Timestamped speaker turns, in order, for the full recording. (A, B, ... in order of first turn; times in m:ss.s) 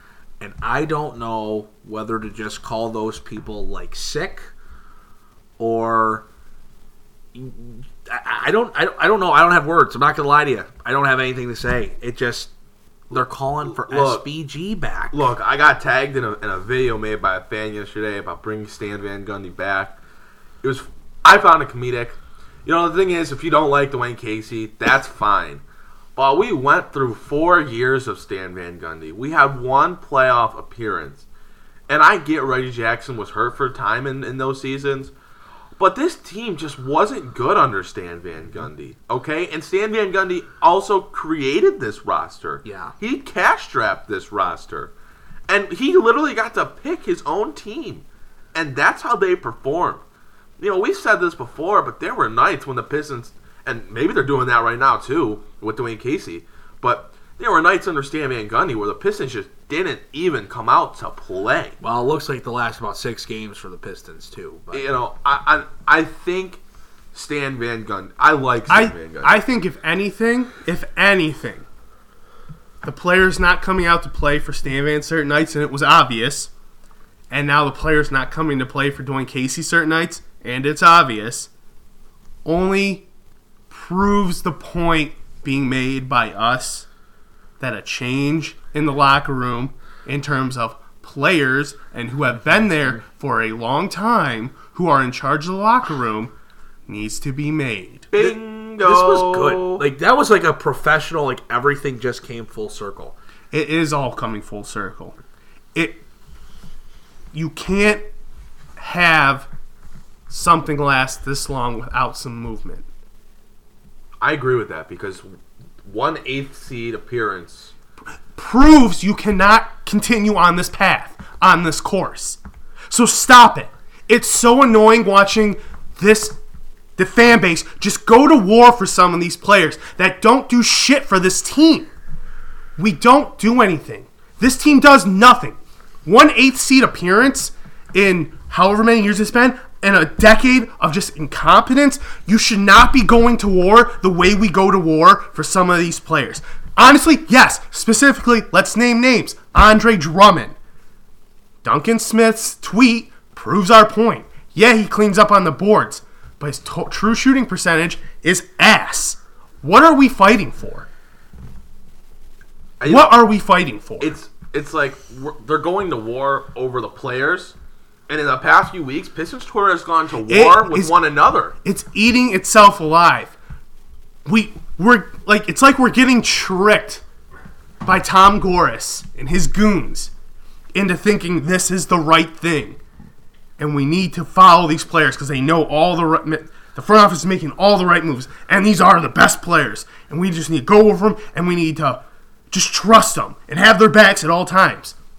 0:00.4-0:04.5 A
0:05.6-0:06.2 A
0:07.3-0:12.5 A
0:13.1-0:15.2 A
0:13.7-0:14.3 B
0:15.1-0:20.0 B
0:20.6-0:25.6 B
0:26.2-0:31.2 B
0:31.9-0:35.1 B
0:35.8-0:44.9 B
0:42.6-0:42.9 A
0:45.5-0:50.0 B
0:50.6-1:01.8 B
1:01.8-1:04.9 A
1:04.7-1:06.6 B
1:07.1-1:09.4 B
1:08.7-1:11.6 C
1:12.8-1:16.5 C
1:17.3-1:21.5 C
1:22.4-1:23.0 C
1:23.7-1:26.9 C
1:27.6-1:36.3 C
1:36.9-1:38.1 C
1:38.1-1:39.8 B
1:38.2-1:43.2 A
1:43.5-1:45.1 C
1:45.7-1:46.0 C
1:47.3-1:48.1 C
1:48.8-1:49.5 C
1:50.3-1:52.8 C
1:54.2-1:55.3 B
1:55.8-1:57.7 B
1:58.3-2:02.4 C
2:02.9-2:06.4 C
2:07.0-2:11.9 C
2:12.8-2:30.5 C
2:31.6-2:40.9 C
2:42.8-2:43.2 B
2:42.8-2:44.1 C
2:44.0-2:47.5 B
2:48.1-2:51.5 B
2:50.3-2:50.9 C
2:51.6-2:53.4 C
2:54.2-2:57.0 C
2:57.8-3:00.1 C
3:00.7-3:02.8 C
3:03.6-3:15.0 C